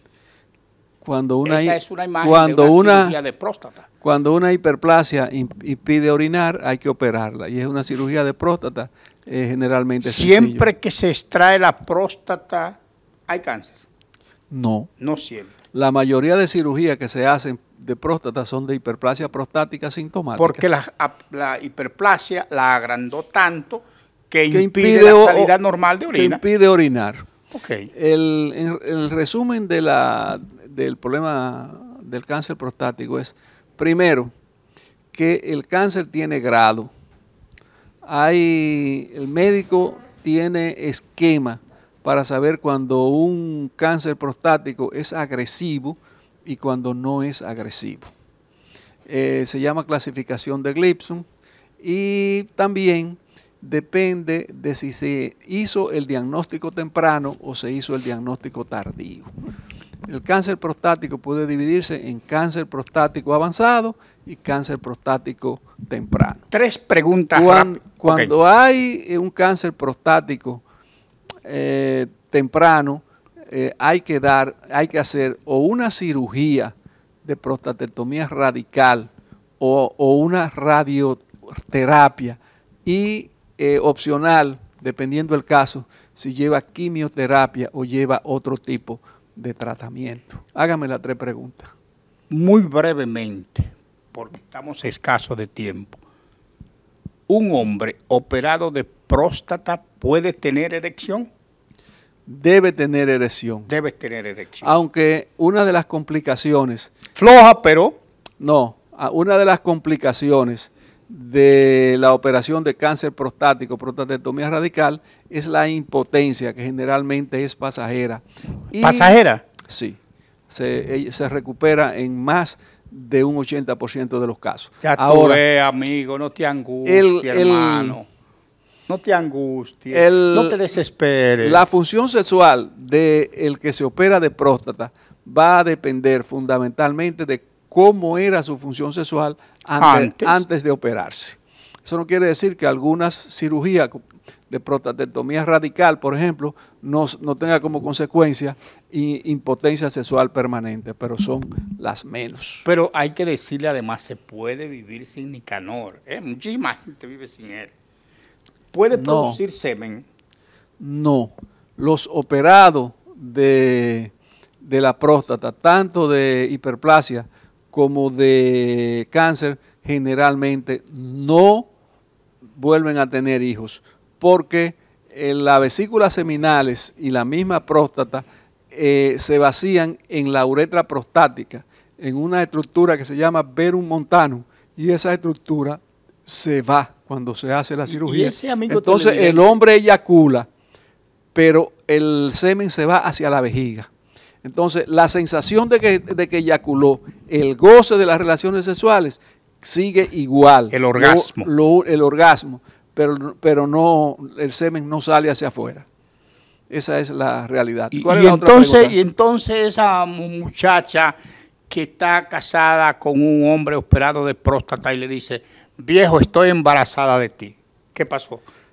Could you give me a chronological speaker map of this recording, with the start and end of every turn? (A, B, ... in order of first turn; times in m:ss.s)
0:01.0-0:03.2 A
0:01.4-0:03.9 B
0:04.0-0:10.6 A
0:10.0-0:13.8 B
0:14.5-0:14.9 A
0:15.0-0:15.6 B
0:15.7-0:20.6 A
0:20.4-0:26.4 B
0:24.5-0:25.6 A
0:26.1-0:27.3 A
0:27.5-0:27.9 B
0:27.9-0:34.3 A
0:35.1-0:36.9 A
0:38.0-0:48.1 A
0:49.1-0:51.3 A
0:51.8-0:59.3 A
1:00.1-1:06.4 A
1:06.5-1:08.3 B
1:07.3-1:10.6 A
1:11.4-1:31.7 A
1:32.3-1:36.0 B
1:37.3-1:41.3 B
1:42.3-1:43.7 A
1:43.7-1:44.8 B
1:44.6-1:46.9 A
1:47.2-1:48.0 B
1:48.4-2:00.0 A
1:58.8-1:59.4 B
2:00.5-2:05.4 A
2:04.8-2:08.1 B
2:06.8-2:08.0 A
2:08.9-2:11.6 B
2:09.9-2:10.6 A
2:11.4-2:32.7 A
2:19.8-2:20.4 B
2:32.6-2:37.7 B
2:38.7-2:40.1 B
2:38.9-2:39.4 A
2:40.8-2:44.1 A
2:44.6-2:51.7 A
2:52.5-3:10.5 A
3:07.9-3:09.5 B
3:11.4-3:13.9 A
3:14.4-3:25.9 A
3:20.7-3:21.5 B
3:26.7-3:29.0 A
3:27.9-3:31.2 B
3:31.7-3:38.4 B